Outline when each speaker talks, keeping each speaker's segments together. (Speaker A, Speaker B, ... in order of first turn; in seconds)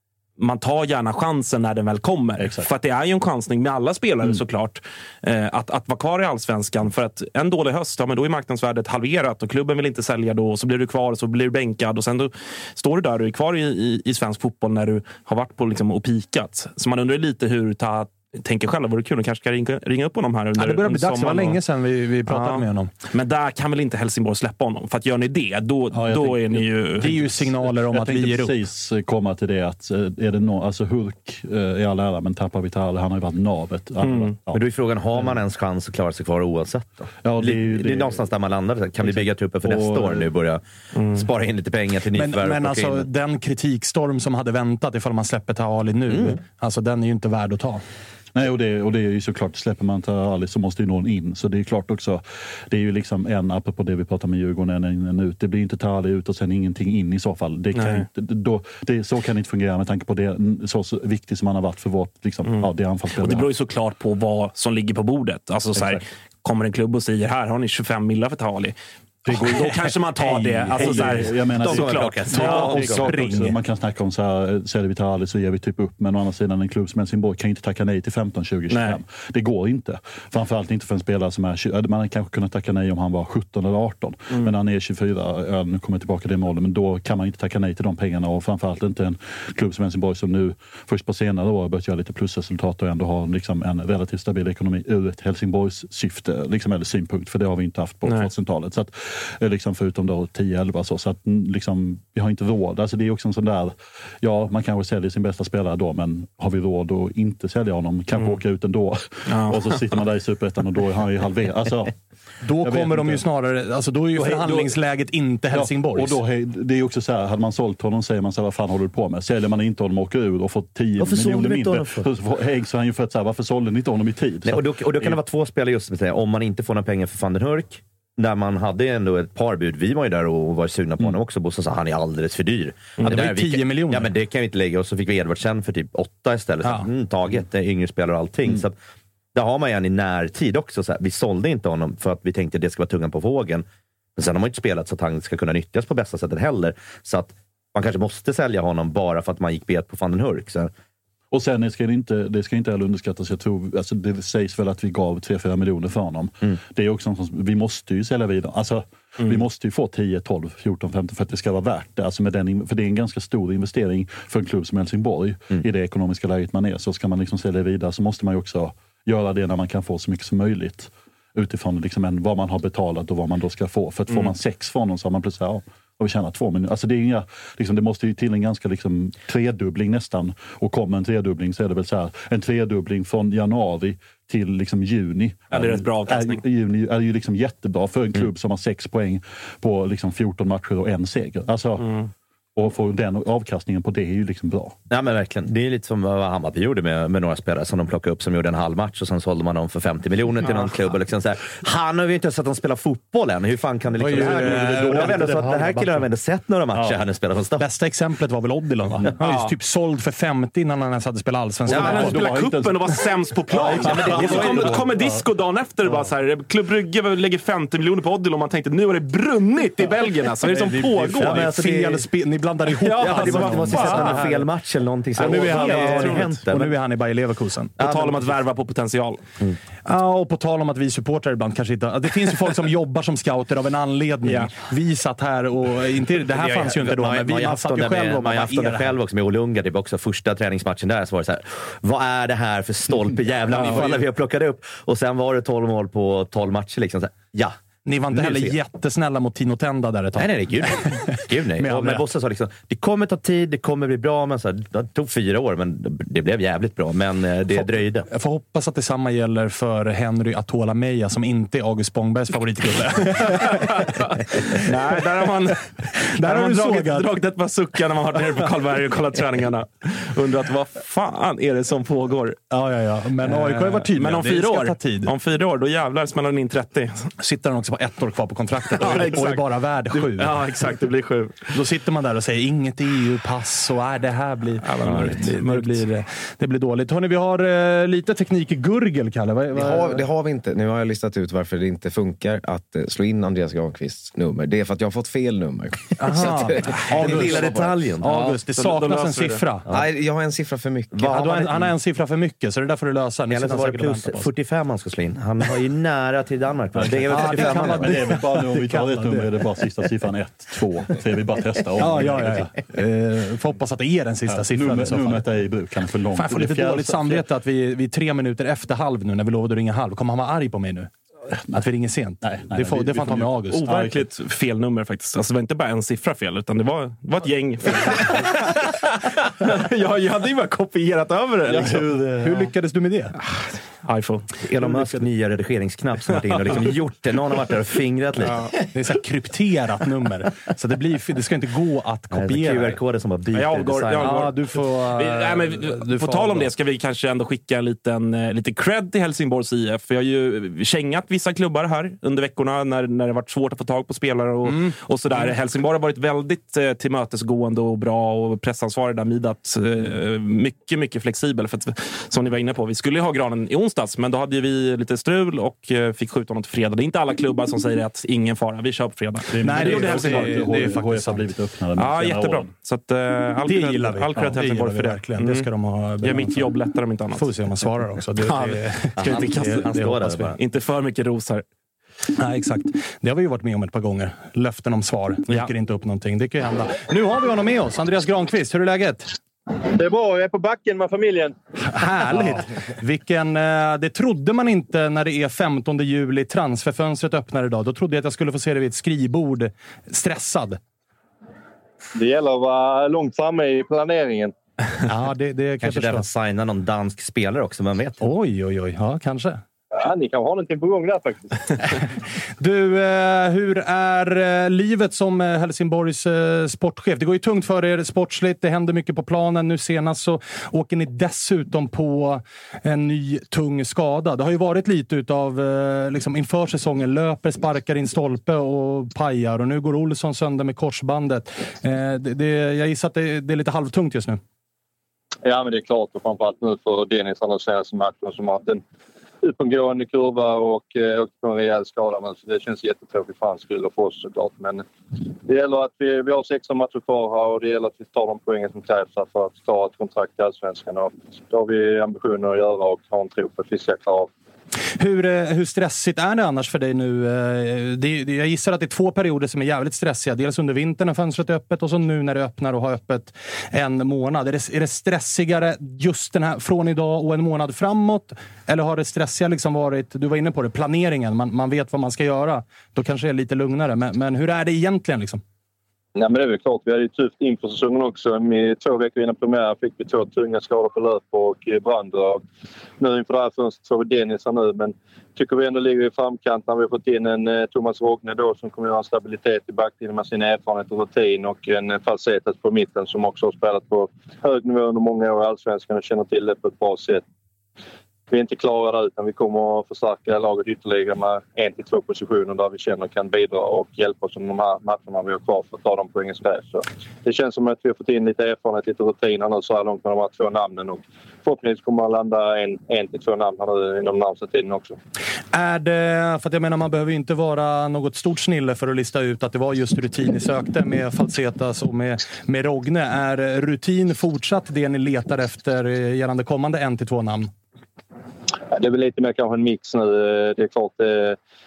Speaker A: 0.4-21.6, 22.3-27.3, 34.0-34.4, 57.8-58.1, 62.5-68.8, 69.4-72.6, 78.7-79.0, 109.3-110.0, 114.2-114.7, 185.5-186.4, 211.7-221.5, 222.8-224.4, 225.2-226.3, 227.8-229.2, 234.3-234.5, 263.5-272.4, 273.2-277.1, 278.8-281.5, 284.6-285.9, 298.6-299.4, 323.5-331.8, 333.3-334.3, 338.2-338.6, 343.3-370.6, 371.8-375.5, 376.0-377.3, 378.2-379.7, 380.4-381.4
Speaker B: 2.4-2.7, 25.9-34.6, 35.1-35.4, 37.2-38.2, 39.0-40.3, 48.3-63.5, 65.7-66.0, 69.2-112.0, 112.6-113.2, 115.5-125.2, 151.3-194.8, 204.2-205.3, 206.7-207.0, 211.7-215.3, 306.7-312.5, 314.3-317.3, 321.3-321.6, 322.2-324.0, 331.4-332.5, 369.3-372.5
Speaker C: 20.6-22.9, 27.0-28.6, 42.1-47.8, 69.3-71.3, 72.3-73.6, 112.4-116.2, 133.1-134.1, 204.0-205.9, 207.6-212.2, 220.4-224.5, 225.2-227.7, 229.9-238.9, 243.5-244.1, 247.9-252.0, 257.5-264.7, 266.2-267.1, 272.5-275.1, 277.2-280.3, 281.5-290.0, 296.0-297.5, 298.0-299.6, 301.0-304.3, 307.1-309.3, 311.8-315.2, 316.2-320.9, 321.5-323.9, 332.2-333.1, 338.7-342.8, 344.0-346.5, 354.4-355.3, 369.4-371.3, 373.5-376.5, 377.1-380.3, 382.2-389.1, 391.7-400.6, 404.8-406.1, 408.0-409.4, 412.4-434.2, 454.8-475.2, 515.3-527.3
Speaker D: 34.5-43.1, 46.1-46.4, 71.6-73.1, 121.0-122.1, 124.5-138.8, 139.3-143.6, 144.2-150.7, 194.9-207.6, 213.6-214.9, 221.2-222.1, 223.0-226.7, 227.8-228.3, 236.3-247.6, 248.1-248.6, 250.2-258.1, 296.9-298.1, 300.9-301.7, 303.3-308.1, 334.4-338.4, 342.1-344.3, 379.0-380.4, 405.6-408.1
Speaker E: 289.6-298.4, 299.7-301.2
Speaker F: 389.7-391.4, 401.9-404.3, 409.7-411.6, 435.2-438.6, 439.2-444.6, 445.3-454.1, 475.9-482.2, 482.8-497.0, 498.1-514.8, 528.5-531.2